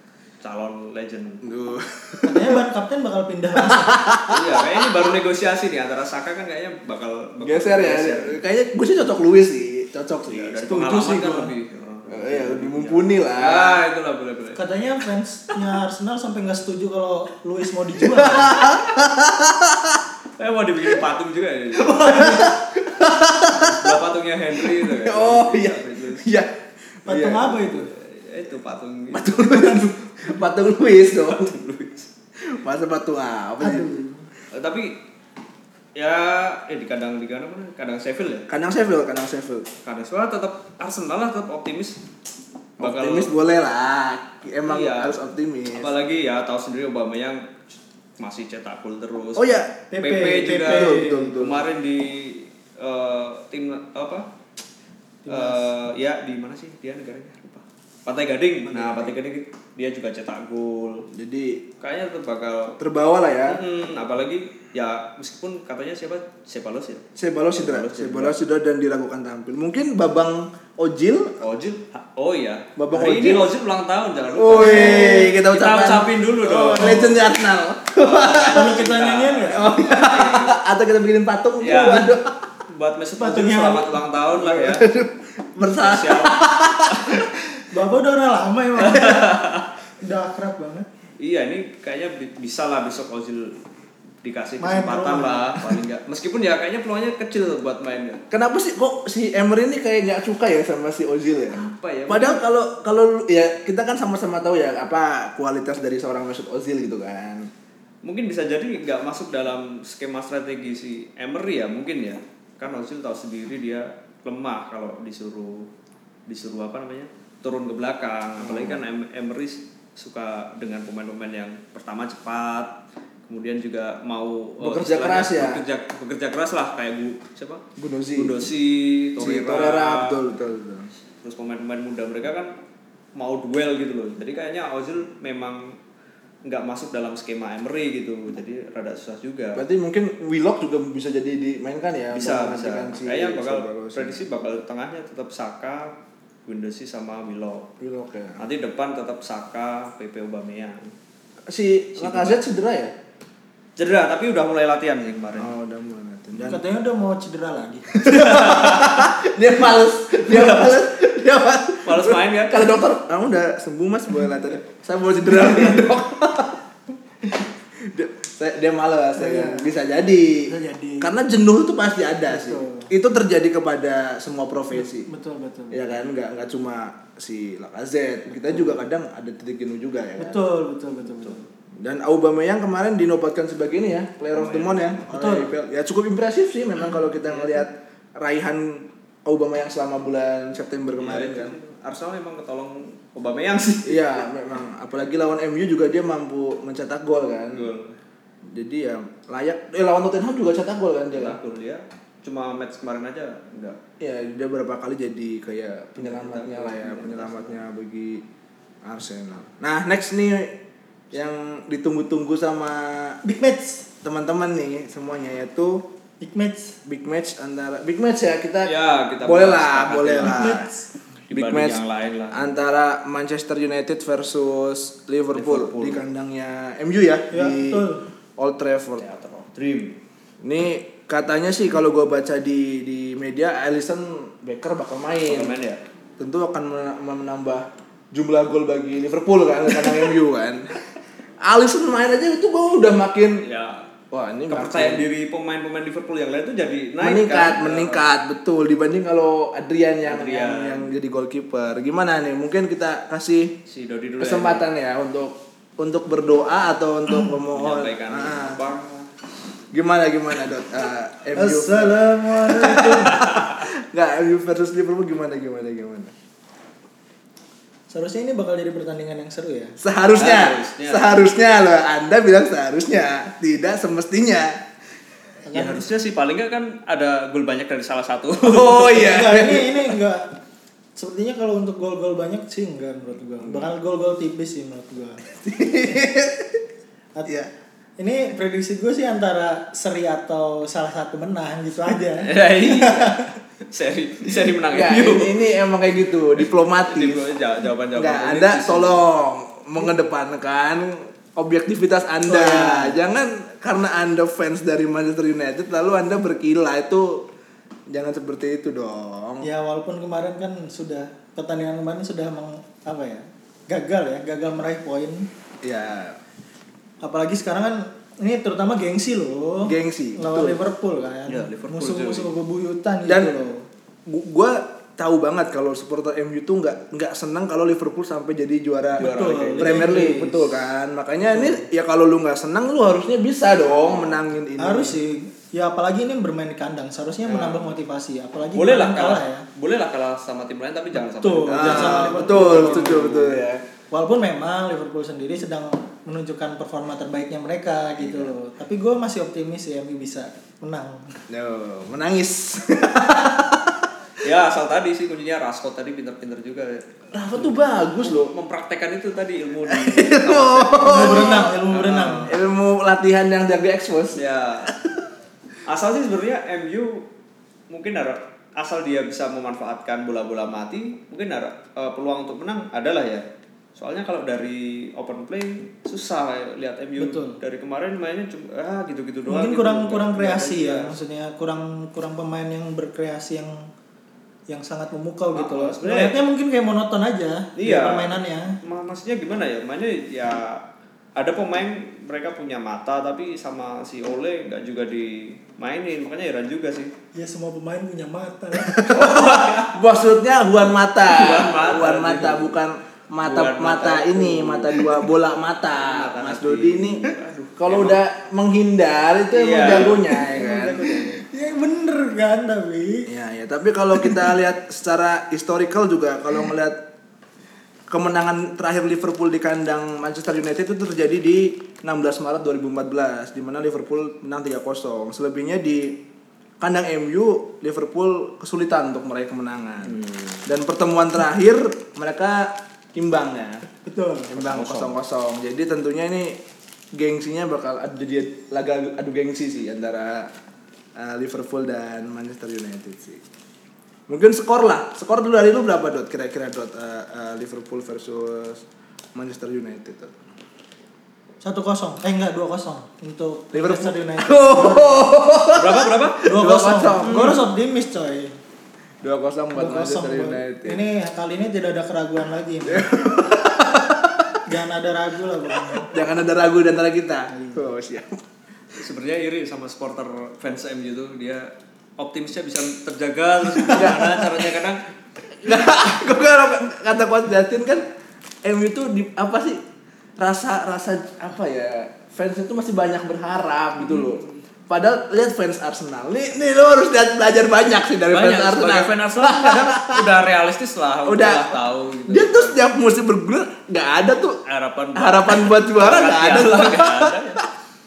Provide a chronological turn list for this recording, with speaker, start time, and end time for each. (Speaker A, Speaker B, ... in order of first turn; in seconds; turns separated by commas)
Speaker A: 0.4-1.4, Speaker B: 1.4-2.6, Speaker C: 2.2-4.0, Speaker B: 3.6-4.9, Speaker A: 4.3-8.4, Speaker B: 7.4-11.5, Speaker A: 10.3-14.6, Speaker B: 12.1-13.8, Speaker C: 14.6-18.7, Speaker B: 18.0-20.0, Speaker A: 20.4-22.5, Speaker B: 21.9-24.0, Speaker A: 23.5-26.3, Speaker B: 24.5-26.5, Speaker B: 27.1-27.6, Speaker C: 27.1-27.9, Speaker A: 27.6-29.9, Speaker B: 29.1-31.5, Speaker A: 31.1-32.1, Speaker B: 32.4-33.9, Speaker C: 33.6-34.2, Speaker A: 34.5-35.0, Speaker A: 36.0-38.5, Speaker B: 38.5-39.7, Speaker A: 39.8-42.0, Speaker B: 42.8-45.9, Speaker A: 42.8-43.3, Speaker A: 44.7-45.2, Speaker A: 45.7-47.5, Speaker A: 48.2-54.3, Speaker B: 49.4-49.7, Speaker C: 49.9-51.4, Speaker B: 50.6-51.7, Speaker C: 55.2-55.6, Speaker A: 55.3-61.0, Speaker B: 58.6-59.2, Speaker B: 61.1-61.6, Speaker A: 61.8-62.8, Speaker B: 62.8-63.6, Speaker A: 63.5-67.0, Speaker B: 67.2-71.3, Speaker A: 67.6-68.3, Speaker A: 71.4-77.2, Speaker B: 72.8-73.5, Speaker B: 74.3-78.9, Speaker C: 74.6-75.3, Speaker C: 76.8-77.2, Speaker A: 78.0-80.6, Speaker C: 78.5-79.6, Speaker B: 79.5-82.3, Speaker A: 81.6-84.9, Speaker C: 83.2-84.0, Speaker B: 84.3-87.3, Speaker A: 85.6-87.3, Speaker C: 87.7-89.4, Speaker A: 88.8-89.7, Speaker C: 90.0-90.8, Speaker A: 91.2-93.6, Speaker A: 94.2-98.2, Speaker C: 94.6-95.8, Speaker B: 98.3-107.5, Speaker A: 101.5-102.4, Speaker A: 108.0-115.7, Speaker A: 116.3-122.7, Speaker B: 118.4-118.8, Speaker A: 123.3-127.6, Speaker B: 124.6-125.6, Speaker B: 127.8-128.4, Speaker A: 128.2-130.2, Speaker B: 129.2-130.9, Speaker A: 131.2-132.5, Speaker A: 133.2-135.8, Speaker A: 136.4-139.6, Speaker B: 139.5-144.2, Speaker A: 142.1-145.9, Speaker A: 146.4-147.7, Speaker B: 147.8-148.4, Speaker A: 148.4-150.9, Speaker B: 151.5-152.9, Speaker A: 152.0-152.4, Speaker A: 153.8-155.5, Speaker B: 155.4-156.6, Speaker C: 156.3-158.2, Speaker B: 157.9-166.6, Speaker A: 158.0-159.1, Speaker A: 160.2-160.8, Speaker A: 161.8-162.8, Speaker B: 167.7-175.1, Speaker C: 169.2-169.7, Speaker C: 170.5-171.1, Speaker C: 172.3-172.9, Speaker C: 174.7-175.8, Speaker B: 175.7-180.4, Speaker C: 180.2-181.4, Speaker B: 181.8-191.5, Speaker A: 184.3-185.0, Speaker C: 185.1-185.5, Speaker A: 187.3-187.6, Speaker A: 191.0-194.2, Speaker B: 193.8-197.7, Speaker A: 197.5-198.0, Speaker B: 198.5-201.4, Speaker A: 201.1-203.8, Speaker B: 204.0-208.2, Speaker A: 206.0-207.6, Speaker B: 208.8-210.5, Speaker B: 211.1-213.2, Speaker C: 213.2-213.8, Speaker B: 214.0-215.8, Speaker C: 216.2-216.8, Speaker B: 216.8-220.7, Speaker A: 218.6-220.6, Speaker C: 220.2-220.9, Speaker A: 221.3-222.5, Speaker B: 221.3-227.8, Speaker A: 225.3-226.0, Speaker C: 227.3-228.0, Speaker B: 228.4-229.0, Speaker A: 229.0-230.0, Speaker B: 230.4-235.6, Speaker A: 235.2-235.8, Speaker B: 236.2-240.8, Speaker B: 241.4-243.4, Speaker A: 243.4-243.9, Speaker B: 244.1-245.1, Speaker A: 244.5-248.0, Speaker B: 247.0-253.5, Speaker A: 250.0-250.9, Speaker A: 253.7-254.7, Speaker B: 254.2-258.6, Speaker A: 257.5-259.1, Speaker B: 259.7-266.1, Speaker C: 261.3-263.3, Speaker A: 263.2-263.6, Speaker C: 267.9-269.8, Speaker B: 269.8-274.6, Speaker A: 270.1-271.2, Speaker C: 275.5-275.8, Speaker A: 275.5-279.1, Speaker B: 278.4-280.0, Speaker C: 278.9-280.3, Speaker C: 280.9-285.2, Speaker B: 285.3-286.6, Speaker C: 288.0-293.3, Speaker A: 292.2-295.5, Speaker B: 294.7-297.2, Speaker A: 296.4-299.0, Speaker B: 297.9-307.2, Speaker C: 302.3-303.0, Speaker B: 307.9-309.4, Speaker C: 309.4-315.3, Speaker B: 315.6-316.2, Speaker C: 317.0-323.6, Speaker B: 319.6-320.6, Speaker A: 321.3-322.3, Speaker B: 323.1-323.3, Speaker B: 324.1-335.0, Speaker C: 329.0-330.5, Speaker A: 329.0-330.2, Speaker C: 331.4-331.6, Speaker A: 333.7-334.2, Speaker C: 334.6-339.4, Speaker A: 337.2-337.7, Speaker A: 338.5-343.3, Speaker C: 341.0-343.1, Speaker B: 341.5-343.6, Speaker C: 343.9-351.1, Speaker B: 348.0-348.3, Speaker B: 351.3-353.9, Speaker A: 354.2-356.9, Speaker B: 357.1-358.3, Speaker A: 358.0-362.4, Speaker B: 359.7-361.5, Speaker C: 360.9-362.3, Speaker B: 362.2-365.0, Speaker A: 364.1-364.7, Speaker A: 365.6-367.0, Speaker A: 367.7-373.2, Speaker A: 373.8-381.0, Speaker C: 377.0-377.4, Speaker C: 379.2-383.7, Speaker C: 384.5-388.6, Speaker A: 385.3-386.1, Speaker A: 387.6-390.6, Speaker A: 391.1-396.9, Speaker C: 397.1-398.9, Speaker B: 398.6-411.1, Speaker A: 398.9-399.8, Speaker A: 401.1-402.6, Speaker A: 403.2-405.1, Speaker A: 405.7-408.0, Speaker A: 409.3-410.2, Speaker C: 409.6-413.1, Speaker B: 413.1-416.8, Speaker B: 417.9-426.0, Speaker B: 426.6-433.6, Speaker A: 429.9-430.4, Speaker C: 433.8-434.3, Speaker B: 434.3-436.4, Speaker A: 434.4-434.9, Speaker B: 436.9-440.3, Speaker B: 440.9-443.2, Speaker B: 444.1-448.6, Speaker B: 449.1-450.1, Speaker C: 451.4-455.2, Speaker B: 453.5-457.4, Speaker A: 455.5-456.2, Speaker C: 456.2-458.4, Speaker A: 457.0-457.4, Speaker B: 459.0-460.8, Speaker C: 459.5-463.6, Speaker B: 462.6-464.4, Speaker C: 464.4-465.9, Speaker B: 465.8-468.2, Speaker C: 467.3-467.7, Speaker A: 468.8-474.8, Speaker B: 473.6-474.3, Speaker B: 475.3-477.9, Speaker B: 478.4-479.6, Speaker B: 480.2-490.1, Speaker A: 483.9-484.2, Speaker A: 488.1-492.5, Speaker B: 491.0-494.4, Speaker A: 494.4-497.4, Speaker B: 494.9-497.2